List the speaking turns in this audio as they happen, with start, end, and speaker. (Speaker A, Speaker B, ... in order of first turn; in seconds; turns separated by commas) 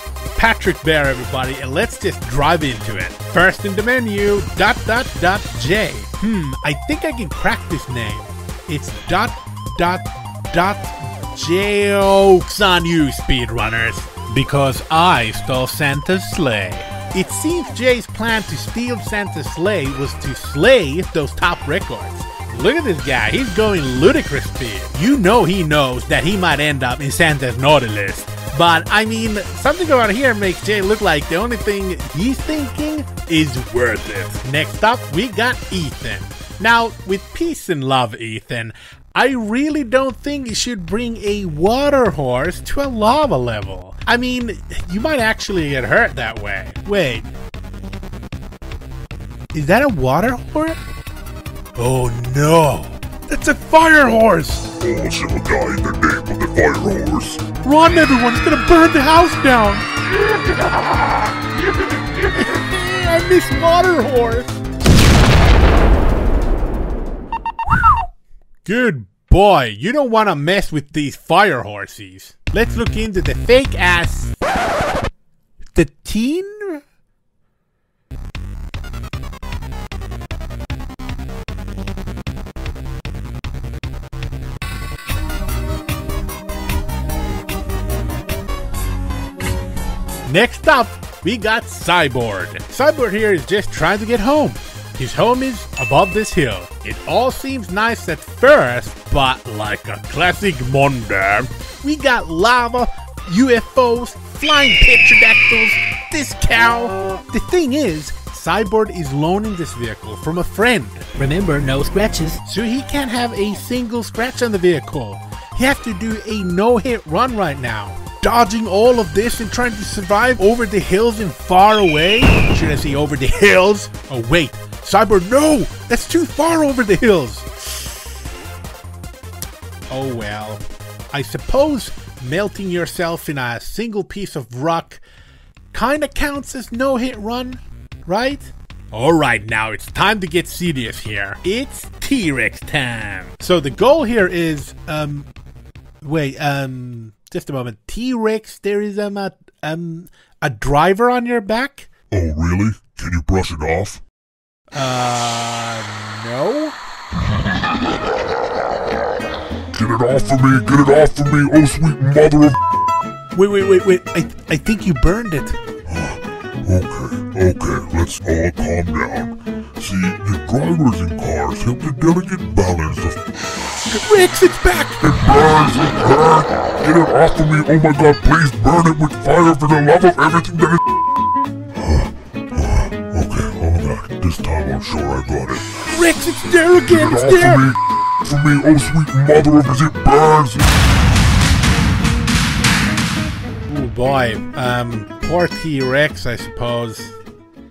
Speaker A: 0.3-47.3, Speaker A: 49.5-50.8, Speaker A: 51.8-54.7, Speaker B: 54.8-57.4, Speaker A: 57.6-60.7, Speaker A: 61.7-64.6, Speaker A: 68.6-74.3, Speaker A: 75.7-76.8, Speaker A: 90.2-128.1, Speaker A: 129.9-135.0, Speaker A: 135.7-145.3, Speaker A: 146.0-151.9, Speaker B: 152.1-154.0, Speaker A: 154.7-156.8, Speaker B: 159.7-162.6, Speaker A: 163.3-165.6, Speaker B: 165.9-173.2, Speaker A: 173.8-175.3, Speaker B: 175.0-180.8, Speaker B: 181.8-185.8, Speaker A: 185.8-187.7, Speaker B: 186.8-190.8, Speaker A: 193.7-197.2